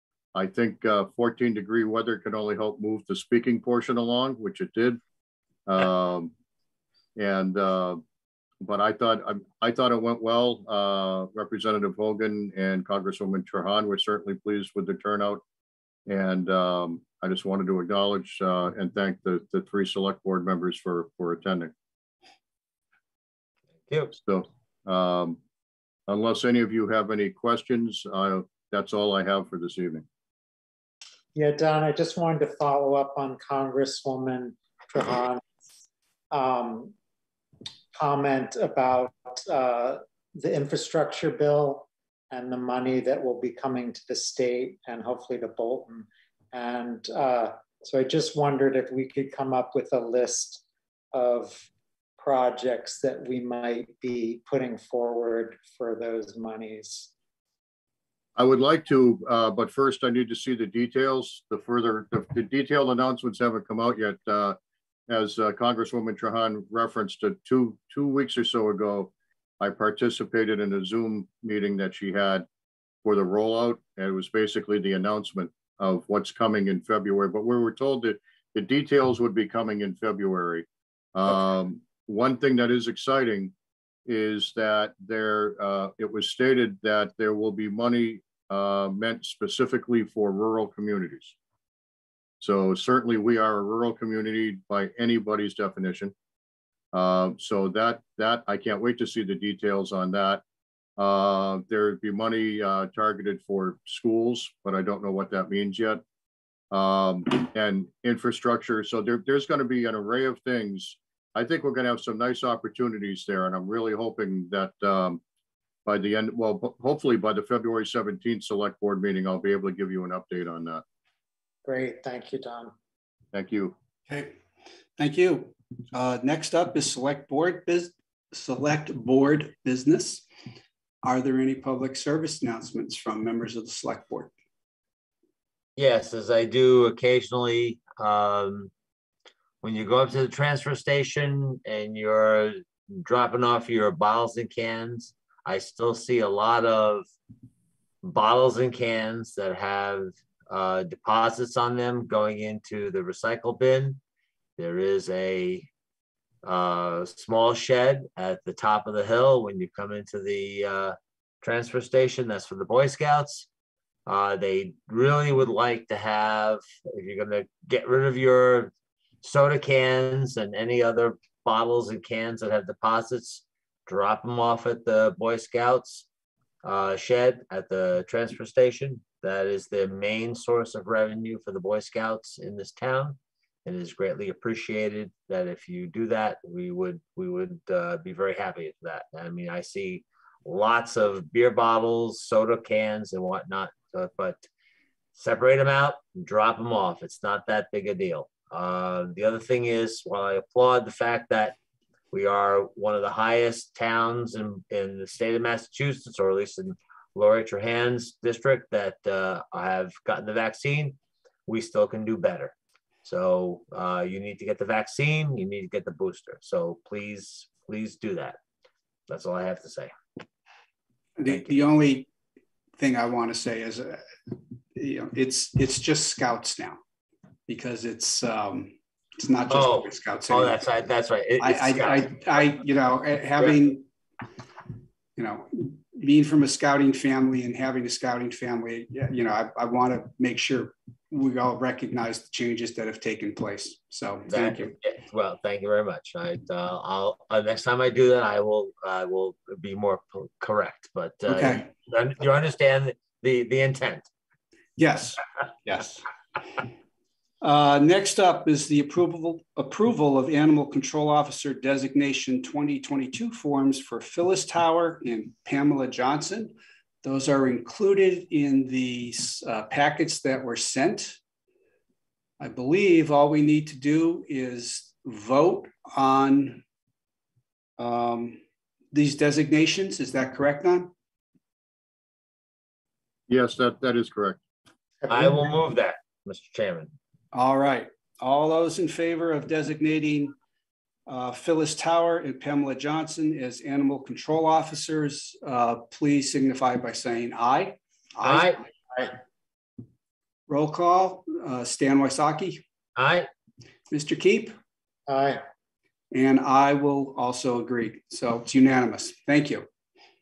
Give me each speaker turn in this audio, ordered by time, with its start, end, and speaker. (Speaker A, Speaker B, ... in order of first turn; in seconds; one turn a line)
Speaker A: 0.3-5.0
Speaker A: 5.7-6.3
Speaker A: 7.2-8.0
Speaker A: 8.6-15.4
Speaker A: 16.1-21.7
Speaker B: 23.9-24.1
Speaker A: 24.2-25.4
Speaker A: 26.1-30.1
Speaker C: 31.4-35.4
Speaker C: 36.3-36.9
Speaker C: 38.0-57.1
Speaker A: 58.4-64.6
Speaker A: 65.1-72.5
Speaker A: 73.0-83.5
Speaker A: 84.1-91.4
Speaker A: 92.4-96.1
Speaker A: 96.9-100.4
Speaker A: 101.0-106.0
Speaker A: 106.7-115.2
Speaker A: 115.9-120.8
Speaker C: 121.7-122.7
Speaker A: 123.3-123.8
Speaker D: 124.1-124.4
Speaker D: 125.0-130.2
Speaker D: 131.0-134.3
Speaker B: 135.8-138.7
Speaker B: 139.6-147.1
Speaker B: 148.0-154.0
Speaker B: 154.6-155.7
Speaker B: 156.4-163.5
Speaker B: 164.1-176.1
Speaker B: 176.6-194.5
Speaker B: 195.1-201.6
Speaker B: 202.1-212.5
Speaker B: 213.1-218.4
Speaker B: 219.1-219.9
Speaker D: 221.2-222.1
Speaker D: 222.8-224.0
Speaker D: 224.8-226.8
Speaker D: 227.5-230.6
Speaker B: 229.5-232.5
Speaker D: 231.4-233.8
Speaker D: 235.2-244.7
Speaker B: 244.3-254.1
Speaker D: 251.3-251.7
Speaker D: 254.8-256.1
Speaker D: 257.4-271.2
Speaker D: 272.4-276.6
Speaker D: 277.8-278.4
Speaker D: 278.9-280.9
Speaker A: 283.3-284.4
Speaker C: 285.0-285.6
Speaker B: 285.1-286.9
Speaker D: 287.3-290.4
Speaker D: 291.1-298.6
Speaker B: 298.2-298.6
Speaker D: 300.5-302.6
Speaker B: 303.0-303.3
Speaker D: 303.9-304.6
Speaker C: 305.1-305.4
Speaker D: 306.1-309.7